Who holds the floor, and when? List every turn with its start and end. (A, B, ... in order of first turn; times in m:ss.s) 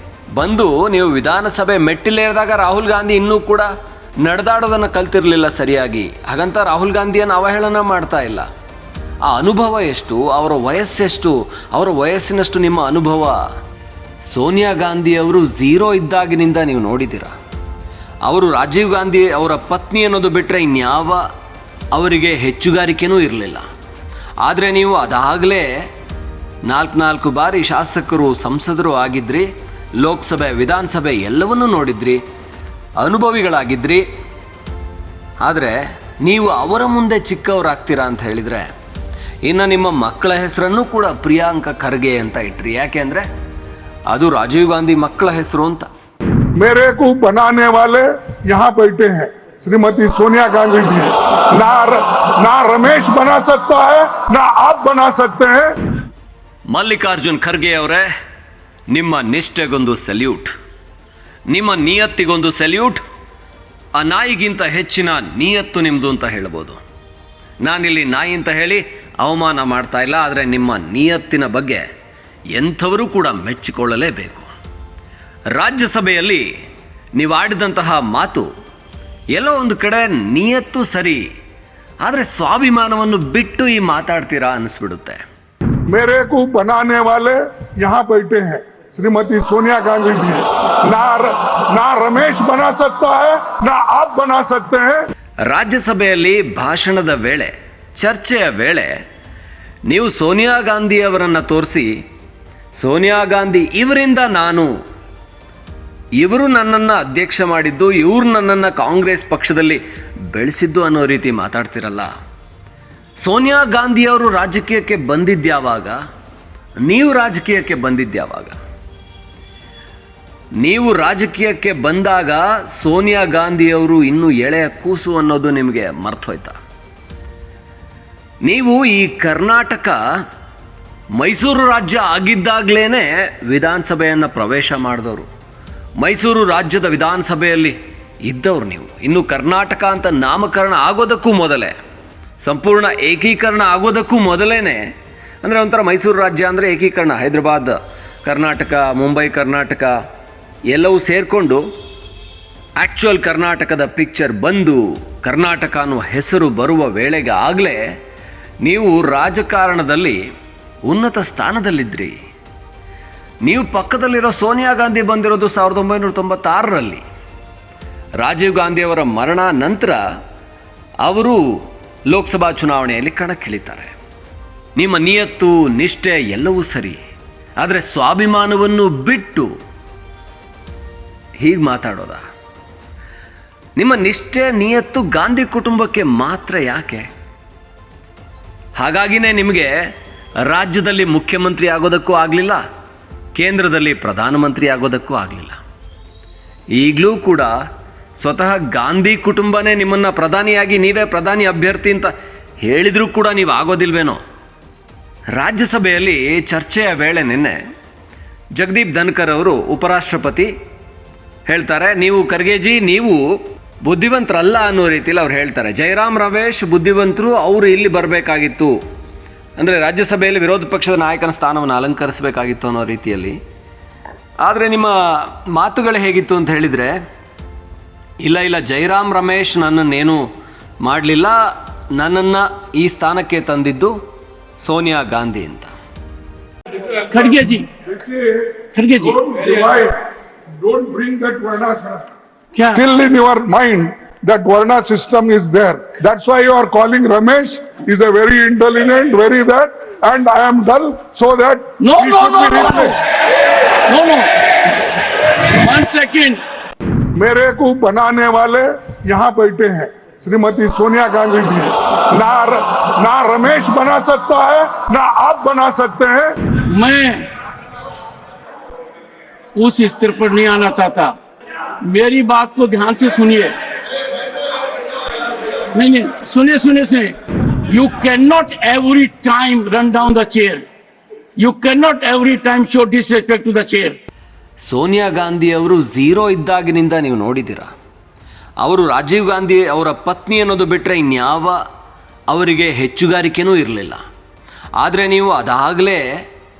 0:00.4-0:03.7 A
0:04.2-0:08.4 A
0:09.2-0:13.4 A
0:14.3-0:17.3 A
0:18.2-0:21.2 A
0:21.9-0:23.6 A
0:24.4-0:25.7 A
0:26.7-0:29.5 A
0:30.0-0:32.2 A
0:33.0-0:34.0 A
0:35.4-0:38.7 A
0:39.4-0:43.2 A
0:44.1-0:45.9 A
0:46.6-0:55.7 B
0:56.7-0:58.1 A
0:58.9-1:00.5 A
1:01.5-1:03.0 A
1:03.9-1:06.8 A
1:07.6-1:11.8 A
1:12.5-1:14.5 A
1:15.5-1:16.4 A
1:17.2-1:18.5 A
1:19.3-1:21.2 A
1:22.0-1:25.2 A
1:25.9-1:35.0 B
1:35.5-1:38.9 A
1:39.9-1:42.0 A
1:42.8-1:44.7 A
1:46.2-1:52.1 A
1:53.2-1:56.0 A
1:56.8-1:58.5 A
2:00.6-2:06.5 A
2:08.4-2:10.0 A
2:11.2-2:15.3 A
2:16.0-2:21.7 A
2:22.4-2:24.8 A
2:25.4-2:29.9 A
2:30.7-2:31.6 A
2:32.8-2:37.8 A
2:38.6-2:40.2 A
2:40.9-2:42.2 A
2:43.4-2:47.0 A
2:48.2-2:50.0 A
2:51.0-2:51.4 A
2:52.1-2:53.9 A
2:54.8-2:57.0 A
2:57.6-2:59.5 A
3:01.4-3:02.2 A
3:03.8-3:07.1 A
3:08.8-3:09.7 A
3:10.4-3:12.6 A
3:13.4-3:15.6 A
3:16.8-3:17.5 A
3:18.2-3:22.1 A
3:22.6-3:24.2 A
3:25.4-3:27.6 A
3:28.6-3:30.5 A
3:31.5-3:33.3 A
3:33.8-3:38.7 A
3:39.6-3:43.4 A
3:44.4-3:47.0 A
3:48.2-3:50.2 A
3:50.8-3:51.4 A
3:51.9-3:53.9 A
3:54.6-3:55.7 A
3:57.1-3:57.7 C
3:57.8-4:00.0 B
3:58.7-3:59.2 C
4:00.6-4:02.1 B
4:02.5-4:02.8 C
4:02.7-4:13.0 B
4:11.8-4:13.0 C
4:13.9-4:14.4 C
4:15.5-4:16.4 C
4:17.2-4:26.4 B
4:26.7-4:27.3 C
4:29.6-4:31.1 C
4:31.8-4:33.5 C
4:35.7-4:37.2 C
4:37.7-4:40.7 C
4:41.4-4:44.0 C
4:44.6-4:47.7 A
4:48.6-4:51.6 A
4:52.3-4:54.0 A
4:54.8-4:56.0 A